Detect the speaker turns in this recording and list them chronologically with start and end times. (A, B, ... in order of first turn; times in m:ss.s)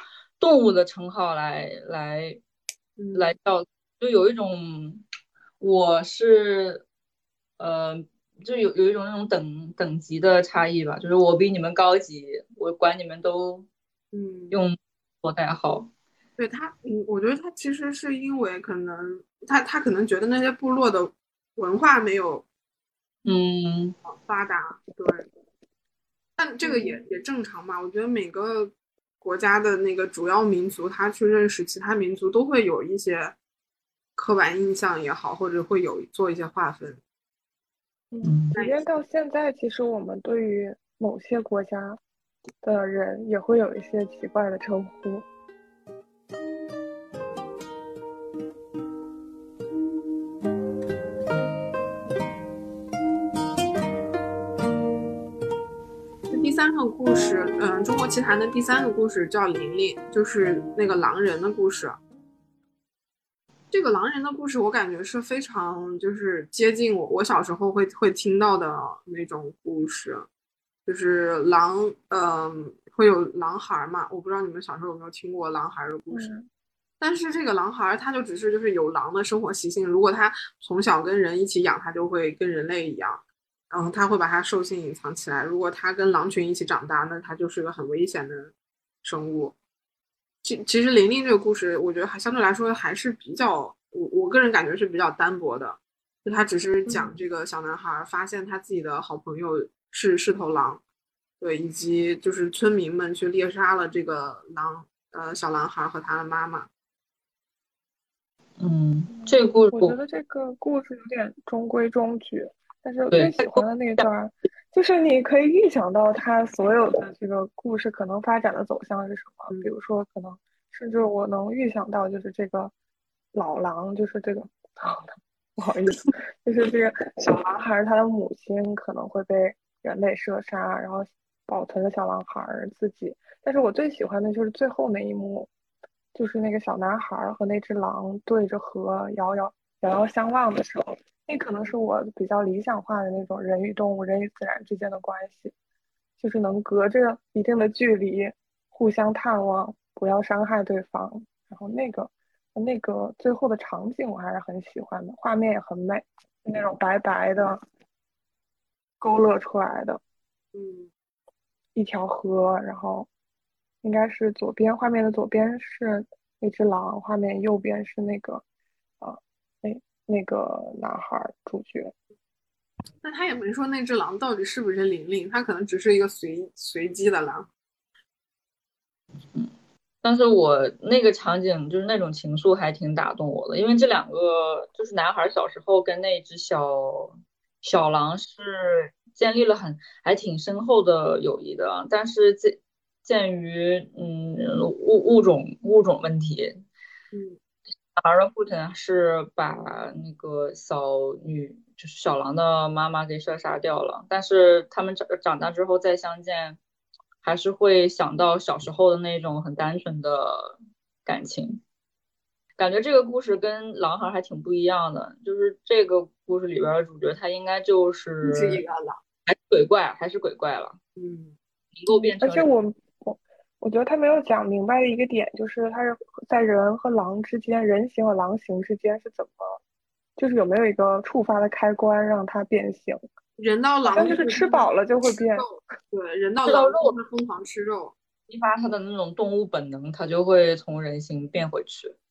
0:00.4-0:02.4 A
0:03.0-0:03.3 B
0:03.2-0:05.0 A
0:05.6-0:06.8 A
0:07.6-0:13.7 A
0:14.1-0:14.6 B
0:14.5-0:15.9 A
0:16.4-0:22.4 B
0:23.2-0:24.0 A
0:24.0-0:25.3 B
0:26.4-0:33.4 B
0:26.6-0:27.0 C
0:34.2-0:37.0 B
0:38.1-0:42.0 C
0:38.2-0:38.6 A
0:38.6-0:38.8 B
0:42.6-0:45.3 C
0:56.3-1:02.0 B
1:03.7-1:10.3 B
1:10.9-1:16.4 B
1:16.1-1:16.5 C
1:17.0-1:28.5 B
1:29.0-1:29.6 B
1:30.4-1:40.8 B
1:41.4-1:46.7 B
1:48.6-1:50.0 A
1:49.1-2:02.7 C
1:53.1-1:53.6 A
2:03.4-2:15.5 C
2:16.1-2:25.5 C
2:26.2-2:37.6 C
2:39.0-2:40.0 C
2:40.5-2:40.9 B
2:41.8-2:43.1 C
2:43.8-2:48.4 C
2:49.0-2:51.9 C
2:53.0-2:57.5 B
2:59.3-3:16.6 A
3:17.1-3:17.4 B
3:18.0-3:26.6 A
3:27.2-3:31.6 A
3:32.6-3:38.6 A
3:38.2-3:39.0 B
3:39.3-3:40.8 A
3:41.0-3:41.4 B
3:41.8-3:42.5 A
3:41.9-3:49.6 C
3:50.2-3:53.0 C
3:53.4-3:58.0 B
3:53.9-3:55.5 C
3:56.5-3:57.0 A
3:58.3-4:02.0 A